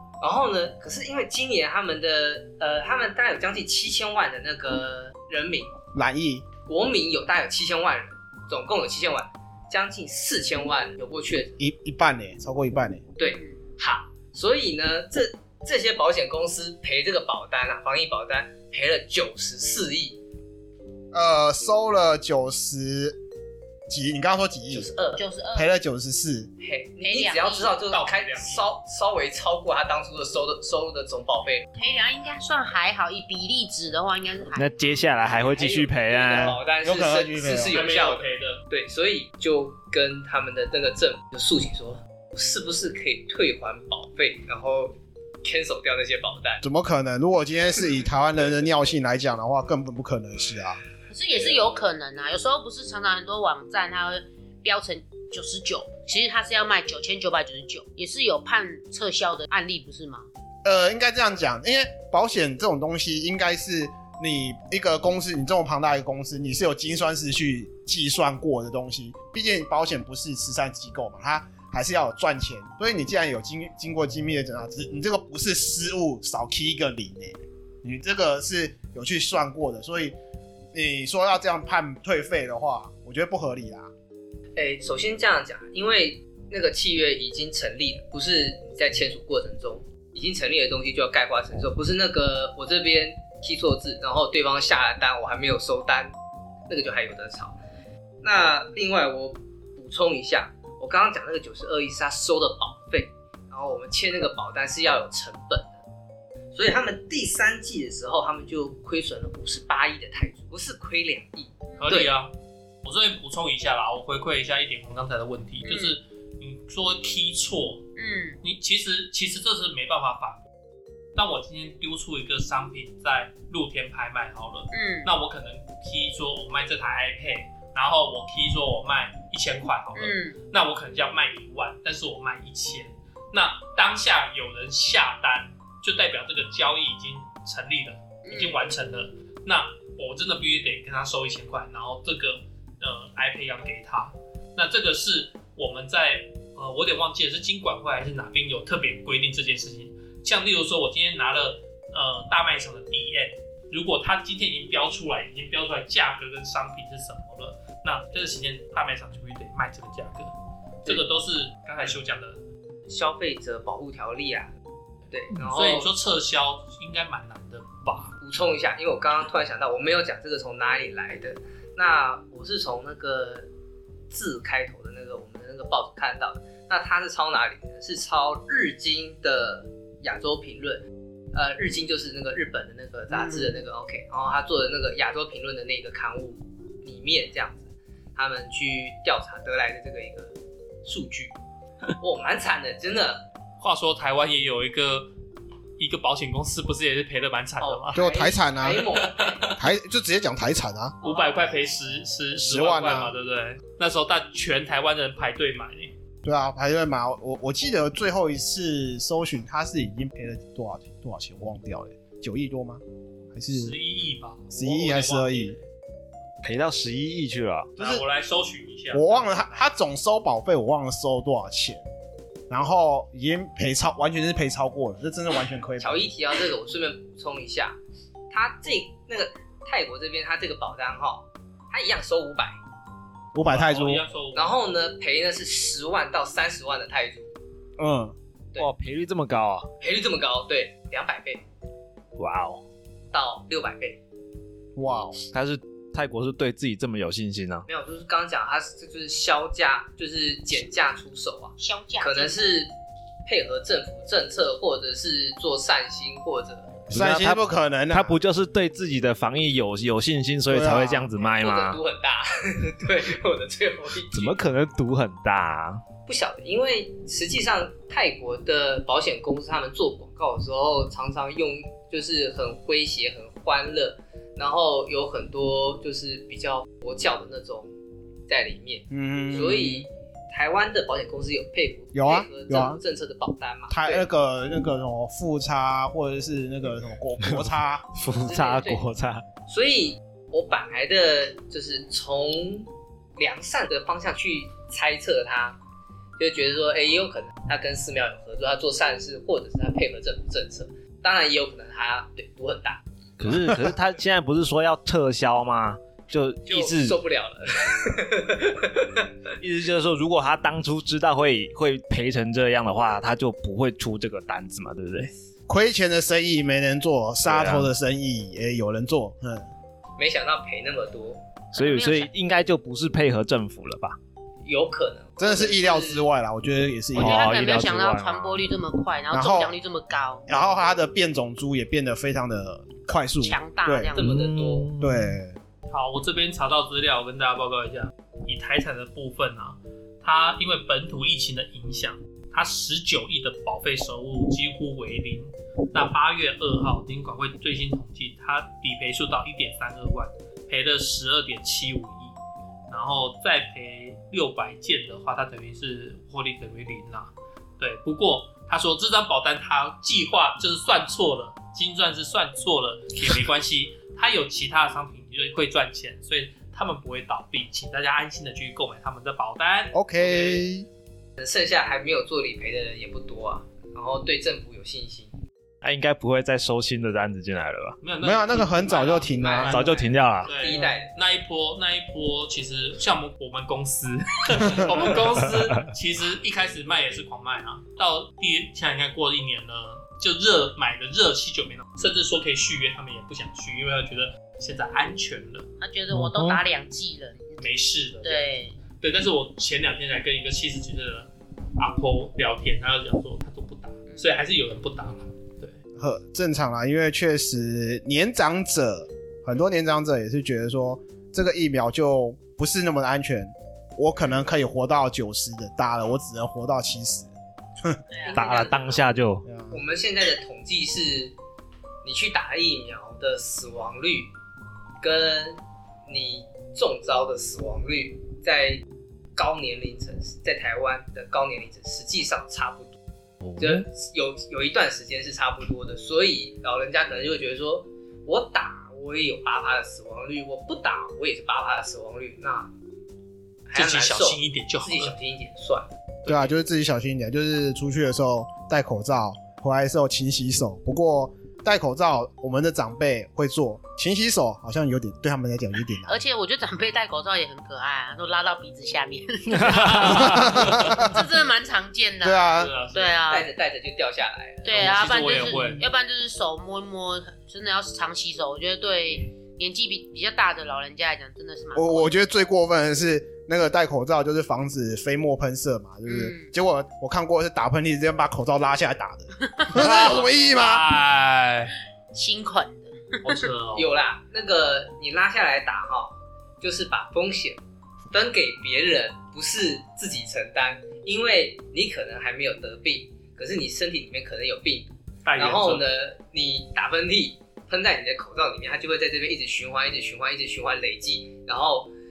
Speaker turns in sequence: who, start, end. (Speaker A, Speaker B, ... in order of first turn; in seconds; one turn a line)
Speaker A: 0.2-5.8
Speaker B: 5.9-6.5
Speaker A: 6.7-11.6
Speaker B: 11.6-13.1
Speaker A: 13.2-20.2
Speaker C: 13.2-13.6
Speaker B: 21.1-23.2
Speaker B: 23.9-24.9
Speaker A: 24.7-25.2
Speaker C: 25.2-25.7
Speaker B: 25.6-26.5
Speaker A: 26.6-31.7
Speaker C: 27.0-27.8
Speaker D: 27.9-28.7
Speaker C: 31.8-34.7
Speaker E: 34.5-36.6
Speaker A: 35.4-46.6
Speaker B: 36.8-37.8
Speaker D: 37.7-38.6
Speaker B: 46.6-50.8
Speaker C: 51.1-60.3
Speaker B: 60.6-80.2
Speaker B: 80.7-83.9
Speaker A: 84.6-96.1
Speaker A: 96.7-97.6
Speaker A: 98.2-105.8
Speaker A: 106.5-112.1
Speaker C: 111.7-112.0
Speaker D: 111.8-112.3
Speaker D: 112.8-117.9
Speaker C: 115.7-116.0
Speaker C: 118.0-118.4
Speaker D: 118.4-120.4
Speaker D: 121.2-162.4
Speaker C: 124.7-125.1
Speaker C: 130.0-130.4
Speaker C: 138.2-138.6
Speaker A: 162.9-164.5
Speaker A: 165.1-165.9
Speaker D: 165.4-168.2
Speaker A: 168.2-173.5
Speaker A: 174.1-180.8
Speaker A: 181.3-191.3
Speaker C: 183.1-183.6
Speaker A: 192.0-193.3
Speaker D: 193.6-195.1
Speaker D: 195.8-198.1
Speaker A: 197.6-199.5
Speaker B: 197.9-198.9
Speaker D: 198.9-199.6
Speaker B: 199.6-201.0
Speaker D: 201.0-205.9
Speaker A: 201.0-201.5
Speaker B: 202.4-203.2
Speaker B: 206.2-212.8
Speaker B: 213.3-213.7
Speaker D: 213.5-215.6
Speaker B: 214.5-215.6
Speaker E: 216.4-217.7
Speaker B: 217.8-218.0
Speaker D: 217.8-219.7
Speaker B: 218.9-221.8
Speaker B: 222.5-226.1
Speaker A: 225.8-227.8
Speaker A: 228.3-232.6
Speaker B: 233.3-234.1
Speaker D: 233.4-234.6
Speaker A: 234.3-237.3
Speaker B: 237.8-238.2
Speaker E: 238.6-239.7
Speaker A: 239.8-241.4
Speaker E: 242.2-242.6
Speaker A: 243.1-244.0
Speaker B: 244.8-245.2
Speaker E: 245.3-247.7
Speaker A: 247.7-252.7
Speaker C: 251.6-252.5
Speaker A: 253.3-256.8
Speaker B: 256.9-258.2
Speaker E: 256.9-261.8
Speaker B: 260.5-261.1
Speaker A: 261.2-264.4
Speaker E: 264.1-265.8
Speaker A: 266.1-277.7
Speaker A: 278.3-284.1
Speaker B: 278.9-279.9
Speaker B: 281.9-282.8
Speaker B: 283.7-287.9
Speaker E: 287.2-289.2
Speaker A: 288.2-288.9
Speaker A: 289.5-295.6
Speaker A: 296.2-302.8
Speaker E: 303.2-307.0
Speaker A: 306.5-309.2
Speaker E: 309.4-315.1
Speaker B: 315.5-319.5
Speaker E: 317.2-317.7
Speaker A: 320.0-321.2
Speaker C: 321.5-322.1
Speaker E: 321.6-324.0
Speaker A: 324.5-326.1
Speaker B: 325.2-327.4
Speaker C: 326.9-330.3
Speaker E: 327.0-328.4
Speaker B: 329.1-329.6
Speaker B: 330.3-333.9
Speaker C: 333.2-334.1
Speaker A: 333.9-334.7
Speaker E: 334.0-335.2
Speaker B: 334.8-335.4
Speaker D: 335.7-352.2
Speaker D: 352.7-370.4
Speaker B: 369.7-370.7
Speaker A: 371.2-375.1
Speaker E: 375.6-377.8
Speaker D: 377.8-395.5
Speaker B: 378.0-379.6
Speaker A: 378.7-380.9
Speaker E: 379.4-380.3
Speaker E: 385.2-385.6
Speaker C: 395.6-398.6
Speaker E: 395.9-396.4
Speaker D: 397.4-405.6
Speaker C: 403.9-404.2
Speaker B: 405.8-417.1
Speaker C: 417.9-418.5
Speaker A: 418.1-418.9
Speaker E: 418.1-419.3
Speaker B: 419.3-419.6
Speaker A: 419.5-421.1
Speaker A: 421.8-424.1
Speaker A: 424.8-428.6
Speaker A: 429.2-432.8
Speaker E: 433.2-433.6
Speaker A: 433.4-442.5
Speaker A: 443.5-445.7
Speaker D: 443.5-444.9
Speaker B: 446.1-455.9
Speaker D: 446.1-446.3
Speaker C: 455.9-463.3
Speaker E: 459.4-460.2
Speaker D: 459.4-460.8
Speaker B: 460.0-461.0
Speaker B: 462.0-462.5
Speaker D: 462.3-463.0
Speaker A: 463.1-465.1
Speaker C: 464.4-471.9
Speaker D: 464.5-465.6
Speaker B: 471.6-480.7
Speaker C: 475.9-476.3
Speaker C: 479.2-479.7
Speaker D: 479.5-481.5
Speaker C: 481.9-483.2
Speaker D: 483.0-483.7
Speaker A: 483.6-487.4
Speaker A: 487.9-501.7
Speaker D: 495.1-495.7